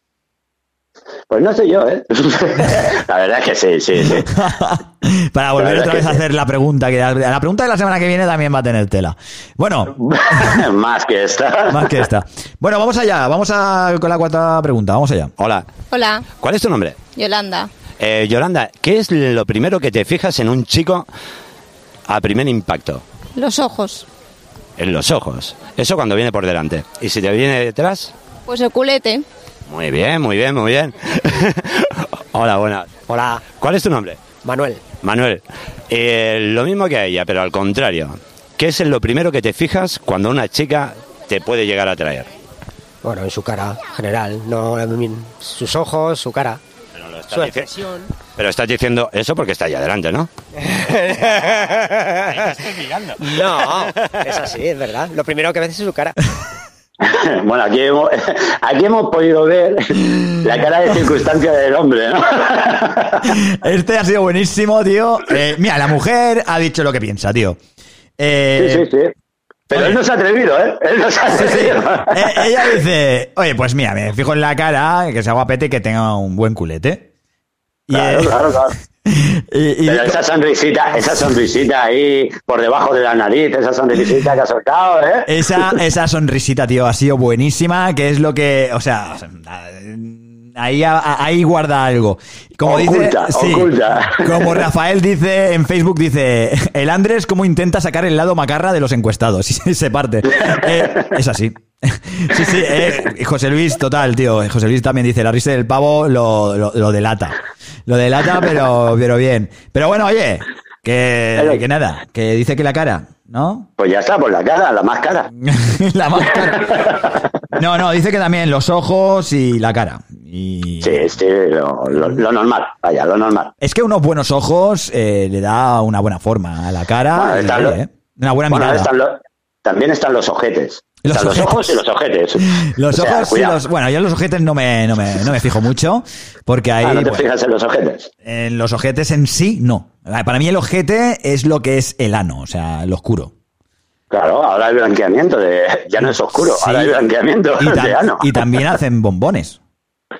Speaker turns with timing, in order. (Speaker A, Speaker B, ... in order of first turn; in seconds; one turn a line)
Speaker A: 1.3-4.2
Speaker B: 4.0-10.6
Speaker A: 5.6-6.2
Speaker A: 9.9-11.9
Speaker B: 11.7-15.3
Speaker C: 15.4-15.8
Speaker D: 15.8-16.2
Speaker C: 16.4-17.0
Speaker D: 17.1-17.7
Speaker C: 18.0-21.1
Speaker C: 22.1-23.0
Speaker D: 23.4-24.0
Speaker C: 24.8-28.1
Speaker D: 28.5-29.2
Speaker C: 29.7-33.0
Speaker E: 33.1-33.5
Speaker C: 33.5-34.2
Speaker E: 34.4-34.9
Speaker C: 34.9-42.3
Speaker E: 43.0-46.6
Speaker C: 47.0-47.8
Speaker E: 47.3-48.0
Speaker C: 48.4-50.3
Speaker E: 50.7-52.5
Speaker C: 52.7-53.1
Speaker E: 53.2-56.1
Speaker A: 57.0-63.3
Speaker B: 63.3-67.6
Speaker B: 68.2-68.8
Speaker A: 68.6-69.1
Speaker B: 69.7-70.0
Speaker A: 69.7-72.4
Speaker B: 71.3-77.1
Speaker B: 77.9-78.4
Speaker A: 77.9-78.7
Speaker B: 79.1-80.2
Speaker A: 79.9-85.7
Speaker B: 85.3-113.7
Speaker A: 92.6-94.6
Speaker A: 100.4-101.1
Speaker A: 113.8-115.3
Speaker B: 115.4-116.8
Speaker A: 116.7-117.1
Speaker B: 117.5-121.1
Speaker A: 120.8-123.5
Speaker B: 121.9-122.2
Speaker B: 123.6-128.9
Speaker A: 127.2-127.8
Speaker A: 128.5-133.6
Speaker B: 131.0-131.8
Speaker B: 132.5-137.2
Speaker A: 136.8-138.1
Speaker B: 138.2-143.3
Speaker A: 144.1-148.2
Speaker B: 146.0-146.9
Speaker B: 147.6-149.6